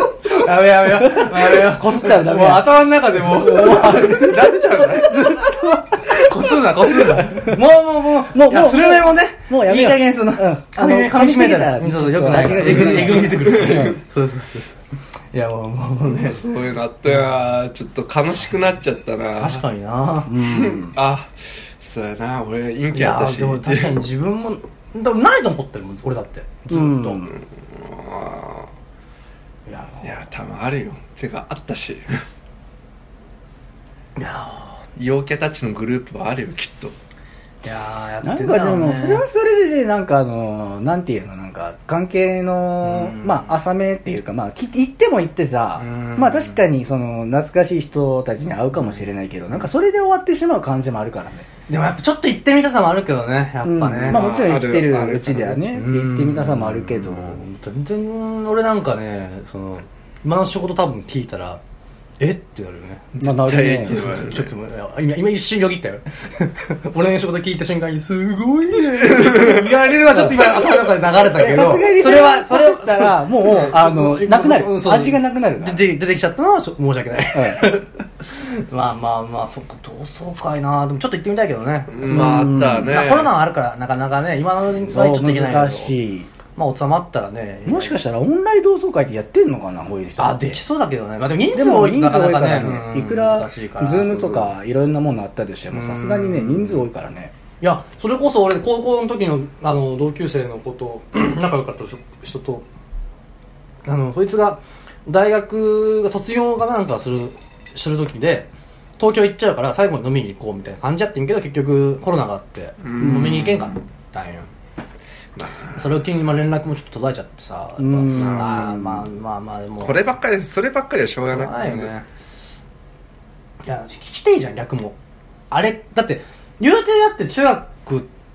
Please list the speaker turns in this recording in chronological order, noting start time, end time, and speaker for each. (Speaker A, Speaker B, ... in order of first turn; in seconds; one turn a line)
Speaker A: 0.3-14.8
Speaker B: 0.8-5.8
Speaker B: 7.0-7.6
Speaker B: 8.3-14.0
Speaker C: 12.6-14.0
Speaker A: 15.3-16.5
Speaker C: 16.1-19.6
Speaker A: 19.4-20.4
Speaker B: 20.3-21.0
Speaker C: 20.5-24.0
Speaker A: 22.9-27.3
Speaker B: 26.7-27.3
Speaker C: 27.3-28.7
Speaker A: 29.7-30.3
Speaker C: 30.0-32.2
Speaker A: 34.2-34.8
Speaker C: 35.0-37.0
Speaker A: 37.6-39.2
Speaker B: 38.2-51.5
Speaker A: 42.8-43.5
Speaker A: 45.8-46.6
Speaker A: 51.7-54.3
Speaker B: 53.6-57.4
Speaker C: 54.1-55.6
Speaker A: 55.7-61.6
Speaker A: 62.2-63.1
Speaker C: 63.1-64.5
Speaker B: 63.2-64.0
Speaker A: 63.8-86.0
Speaker C: 69.1-69.6
Speaker B: 70.1-70.5
Speaker B: 71.1-75.8
Speaker B: 77.3-77.7
Speaker C: 81.9-83.3
Speaker B: 82.1-82.9
Speaker B: 84.9-86.3
Speaker A: 86.6-88.0
Speaker B: 87.7-90.6
Speaker A: 90.2-94.5
Speaker B: 91.5-97.3
Speaker A: 95.7-96.8
Speaker A: 97.6-102.7
Speaker A: 103.8-114.5
Speaker C: 112.8-113.7
Speaker B: 113.0-113.6
Speaker C: 115.4-116.0
Speaker A: 115.8-120.0
Speaker B: 117.8-119.1
Speaker C: 118.1-118.7
Speaker C: 119.8-121.9
Speaker A: 121.3-122.0
Speaker A: 123.6-125.0
Speaker A: 125.5-128.1